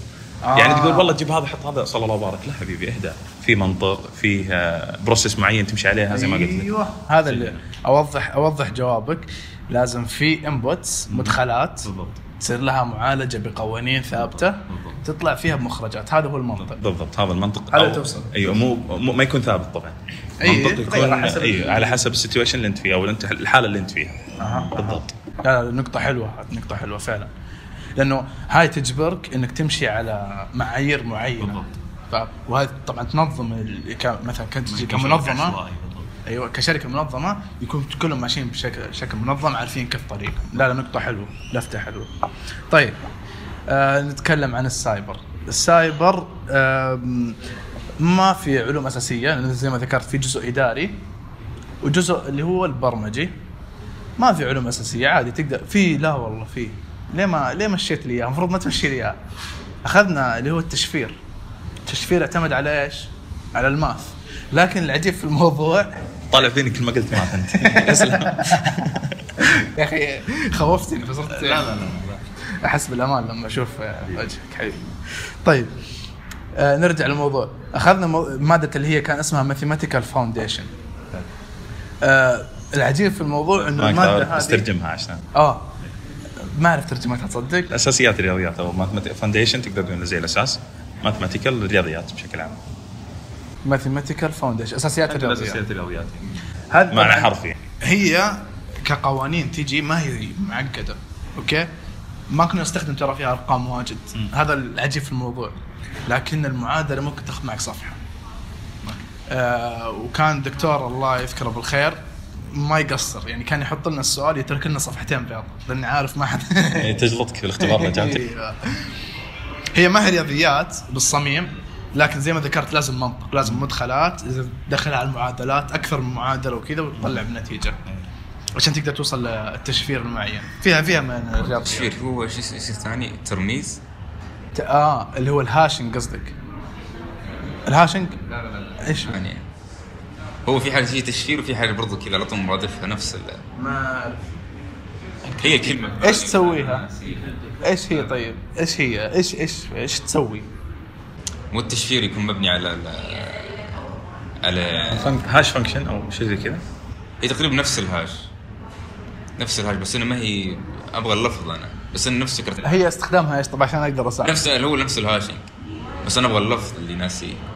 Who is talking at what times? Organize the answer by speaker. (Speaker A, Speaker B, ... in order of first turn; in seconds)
Speaker A: 0.4-1.2, 6.1-16.8, 17.7-18.3, 20.4-22.0, 24.4-27.3, 28.0-35.6, 36.2-42.1, 42.7-43.0, 43.7-47.4, 48.0-51.0, 51.8-53.3, 54.2-59.2, 59.8-61.2, 61.9-66.0, 67.6-68.7, 69.4-71.7, 72.6-75.8, 76.5-80.7, 82.0-84.7, 85.3-85.8, 86.4-87.7, 93.7-95.6, 96.7-101.7, 102.3-105.5, 106.1-108.0, 108.9-117.0, 117.6-118.9, 119.8-127.8, 128.6-131.9, 134.6-136.3, 137.7-138.2, 138.8-139.2, 143.6-144.2, 145.4-146.8, 147.6-150.5, 162.6-164.4
Speaker B: 0.5-6.7, 7.3-7.6, 11.1-12.2, 14.7-15.0, 16.7-25.1, 31.4-31.7, 34.7-36.1, 66.3-69.1, 71.3-72.2, 83.7-85.3, 87.7-92.6, 95.1-96.3, 96.9-97.7, 116.8-118.3, 154.9-156.6
Speaker C: 131.6-133.8, 139.0-139.4, 140.5-143.4, 145.4-147.4, 151.5-153.7, 154.4-155.2, 157.2-158.2, 159.4-162.8, 164.2-165.4, 166.0-167.4